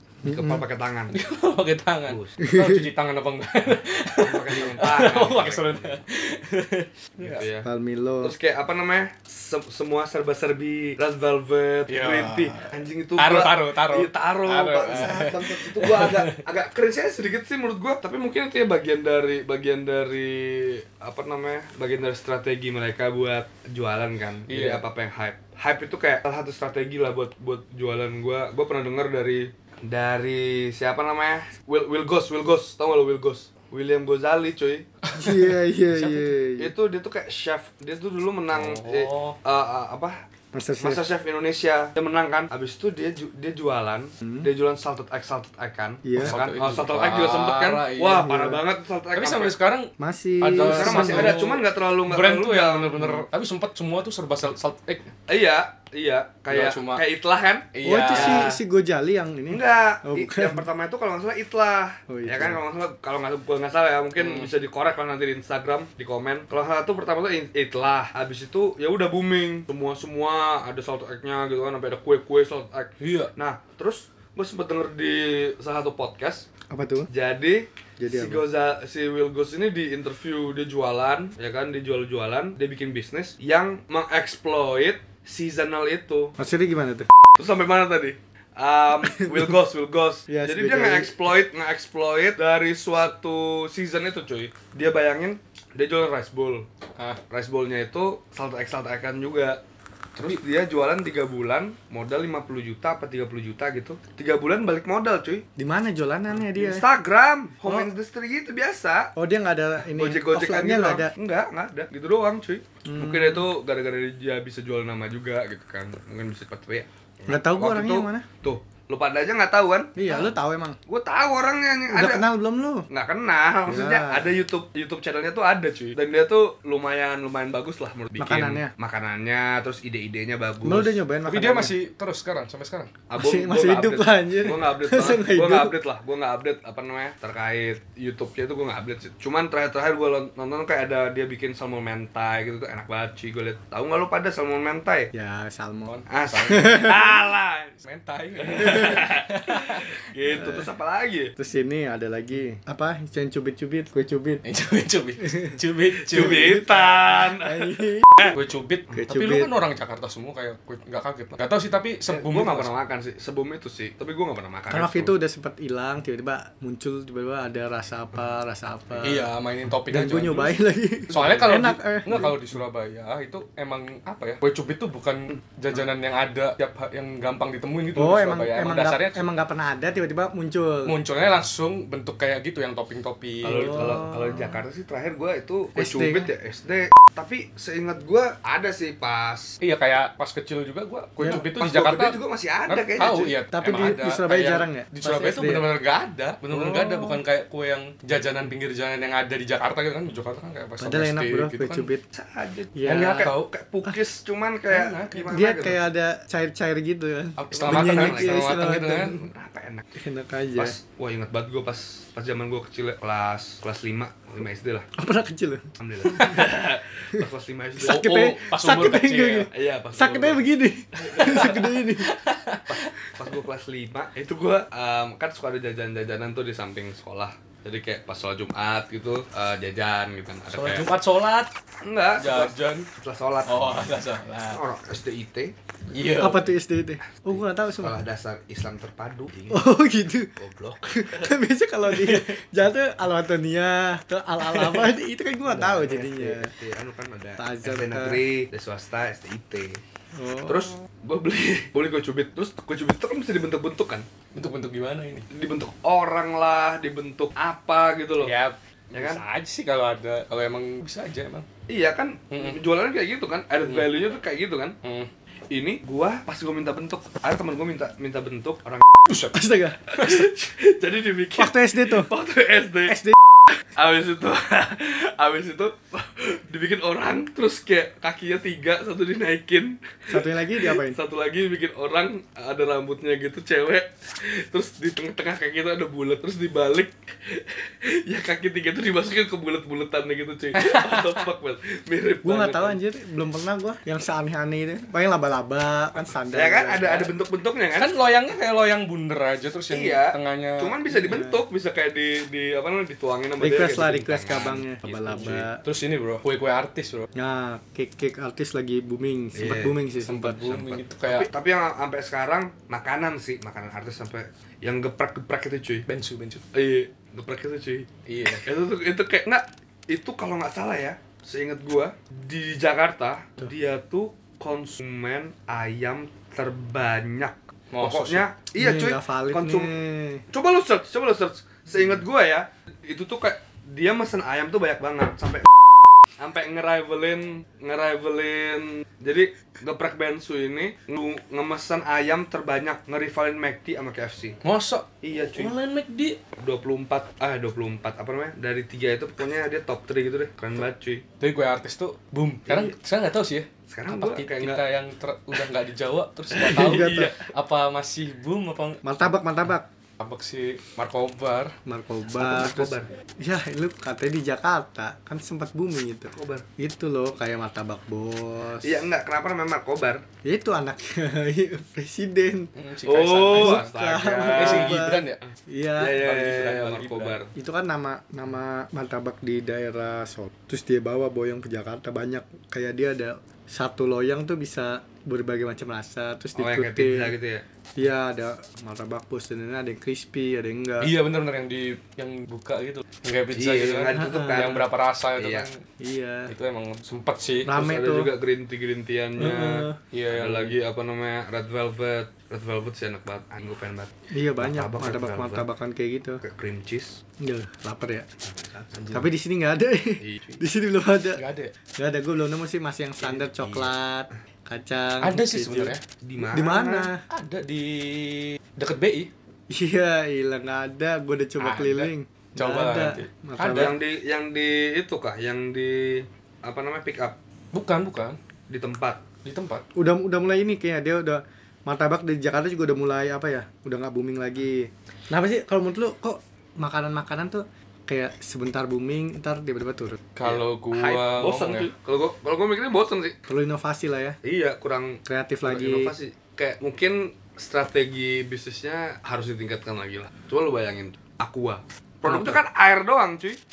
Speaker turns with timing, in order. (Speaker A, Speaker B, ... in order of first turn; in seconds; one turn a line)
Speaker A: 0.2-1.1
Speaker B: 0.2-0.6
Speaker C: 1.1-7.5
Speaker A: 2.1-2.4
Speaker B: 2.4-2.9
Speaker A: 4.2-6.0
Speaker A: 7.2-7.7
Speaker B: 7.6-8.3
Speaker A: 8.2-34.9
Speaker C: 11.9-16.4
Speaker C: 24.5-24.8
Speaker C: 35.0-36.4
Speaker B: 35.2-36.7
Speaker A: 36.6-40.2
Speaker C: 38.5-39.4
Speaker B: 40.5-41.0
Speaker A: 40.8-49.5
Speaker B: 46.0-46.4
Speaker C: 46.2-48.3
Speaker B: 48.1-48.6
Speaker C: 49.1-55.1
Speaker B: 50.0-51.4
Speaker A: 50.6-53.1
Speaker A: 55.3-58.6
Speaker C: 56.5-57.0
Speaker C: 57.7-58.5
Speaker B: 57.8-60.6
Speaker A: 59.5-76.5
Speaker B: 62.1-62.6
Speaker C: 64.2-64.5
Speaker C: 73.0-73.3
Speaker B: 76.7-77.1
Speaker A: 77.1-86.3
Speaker B: 78.0-78.4
Speaker B: 86.4-87.1
Speaker A: 87.4-96.7
Speaker B: 89.0-89.5
Speaker B: 90.3-91.2
Speaker A: 97.3-99.6
Speaker A: 100.2-105.5
Speaker B: 105.6-106.8
Speaker A: 106.3-109.1
Speaker B: 109.2-111.1
Speaker A: 109.8-120.3
Speaker B: 112.8-113.4
Speaker B: 117.3-118.2
Speaker B: 120.0-120.8
Speaker A: 120.9-122.3
Speaker B: 121.9-122.9
Speaker A: 122.9-131.0
Speaker B: 123.7-124.3
Speaker B: 128.2-128.7
Speaker B: 130.6-131.7
Speaker C: 131.2-132.9
Speaker A: 133.1-145.1
Speaker B: 133.2-135.8
Speaker B: 145.1-147.1
Speaker C: 145.9-147.1
Speaker A: 146.1-147.8
Speaker C: 147.8-150.0
Speaker A: 148.4-151.3
Speaker B: 150.3-150.7
Speaker B: 151.4-154.4
Speaker C: 154.4-156.9
Speaker A: 156.1-158.3
Speaker B: 156.2-158.3
Speaker C: 158.3-162.7
Speaker B: 158.9-159.5
Speaker A: 162.1-165.1
Speaker B: 164.7-169.3
Speaker C: 169.0-179.3
Speaker B: 169.9-172.4
Speaker A: 171.1-171.4
Speaker B: 178.0-180.9
Speaker C: 180.8-184.0
Speaker A: 183.4-189.6
Speaker B: 183.5-184.6
Speaker B: 185.8-186.3
Speaker C: 189.6-201.9
Speaker A: 191.3-193.3
Speaker B: 193.5-195.7
Speaker B: 196.5-197.2
Speaker B: 200.8-202.0
Speaker A: 202.1-205.8
Speaker B: 202.8-203.3
Speaker C: 202.9-203.5
Speaker C: 204.7-205.3
Speaker B: 205.3-209.2
Speaker C: 207.4-209.2
Speaker A: 207.5-208.5
Speaker A: 209.1-209.9
Speaker B: 210.0-210.8
Speaker A: 210.6-214.9
Speaker B: 214.9-216.3
Speaker A: 215.8-218.1
Speaker C: 216.1-216.5
Speaker B: 217.8-222.1
Speaker C: 217.8-219.5
Speaker A: 219.5-220.4
Speaker A: 221.0-221.7
Speaker C: 221.0-222.9
Speaker A: 222.7-230.9
Speaker C: 230.5-231.5
Speaker A: 231.8-233.9
Speaker C: 232.2-232.9
Speaker C: 233.5-234.6
Speaker A: 234.5-235.5
Speaker C: 235.9-236.5
Speaker B: 236.2-238.0
Speaker A: 237.1-239.6
Speaker B: 239.5-240.3
Speaker A: 240.4-241.3
Speaker B: 240.9-246.5
Speaker C: 241.9-242.4
Speaker A: 245.5-249.8
Speaker B: 247.4-248.2
Speaker B: 250.2-250.7
Speaker A: 250.5-254.1
Speaker C: 254.3-255.3
Speaker A: 255.3-258.3
Speaker C: 258.2-261.5
Speaker A: 258.9-259.2
Speaker A: 261.7-264.8
Speaker C: 262.3-262.6
Speaker C: 264.8-265.1
Speaker A: 265.5-269.1
Speaker B: 269.3-269.9
Speaker A: 269.9-273.1
Speaker C: 270.0-270.3
Speaker B: 271.4-272.1
Speaker A: 273.8-292.8
Speaker B: 280.1-281.0
Speaker C: 290.6-291.2
Speaker B: 292.2-297.1
Speaker A: 296.3-297.9
Speaker C: 297.8-300.8
Speaker A: 299.7-305.5
Speaker B: 300.9-301.4
Speaker B: 303.4-305.6
Speaker C: 305.1-307.1
Speaker B: 307.1-310.5
Speaker A: 309.4-309.8
Speaker C: 310.0-311.3
Speaker A: 310.4-315.9
Speaker C: 315.9-316.5
Speaker A: 316.5-329.7
Speaker C: 318.1-318.5
Speaker C: 327.7-328.2
Speaker B: 328.6-330.2
Speaker A: 330.3-335.5
Speaker A: 336.2-344.4
Speaker C: 344.4-346.2
Speaker A: 345.0-345.6
Speaker A: 346.4-351.1
Speaker C: 351.2-358.8
Speaker A: 352.5-352.8
Speaker A: 353.7-354.6
Speaker A: 356.4-357.1
Speaker B: 356.4-357.1
Speaker B: 358.8-359.7
Speaker C: 360.0-361.6
Speaker B: 361.7-368.8
Speaker A: 362.2-362.9
Speaker A: 366.1-366.5
Speaker A: 368.6-370.0
Speaker B: 370.2-372.5
Speaker C: 372.6-373.7
Speaker A: 372.9-374.8
Speaker B: 373.3-376.0
Speaker C: 374.3-375.2
Speaker A: 375.8-377.3
Speaker C: 375.9-377.2
Speaker B: 377.4-387.1
Speaker A: 386.4-387.4
Speaker B: 387.8-390.9
Speaker C: 390.8-395.6
Speaker A: 393.3-394.7
Speaker B: 393.9-394.5
Speaker A: 395.2-395.5
Speaker B: 395.8-396.3
Speaker C: 396.3-397.5
Speaker B: 397.4-398.1
Speaker A: 397.5-405.5
Speaker B: 399.2-399.8
Speaker C: 399.9-400.6
Speaker B: 404.1-406.2
Speaker A: 406.2-407.0
Speaker B: 407.2-408.1
Speaker A: 408.3-409.0
Speaker B: 408.9-411.2
Speaker A: 410.0-410.4
Speaker C: 411.2-411.5
Speaker B: 411.8-415.7
Speaker A: 413.0-413.7
Speaker C: 415.0-415.8
Speaker A: 416.0-416.9
Speaker B: 416.3-417.0
Speaker C: 417.1-419.1
Speaker B: 419.5-423.7
Speaker C: 421.4-423.7
Speaker A: 423.5-427.2
Speaker C: 427.5-428.2
Speaker A: 428.5-429.0
Speaker C: 429.2-429.6
Speaker B: 429.8-440.0
Speaker C: 440.2-441.7
Speaker A: 440.2-443.2
Speaker B: 443.3-444.2
Speaker A: 444.2-453.4
Speaker B: 445.1-445.9
Speaker B: 452.1-452.4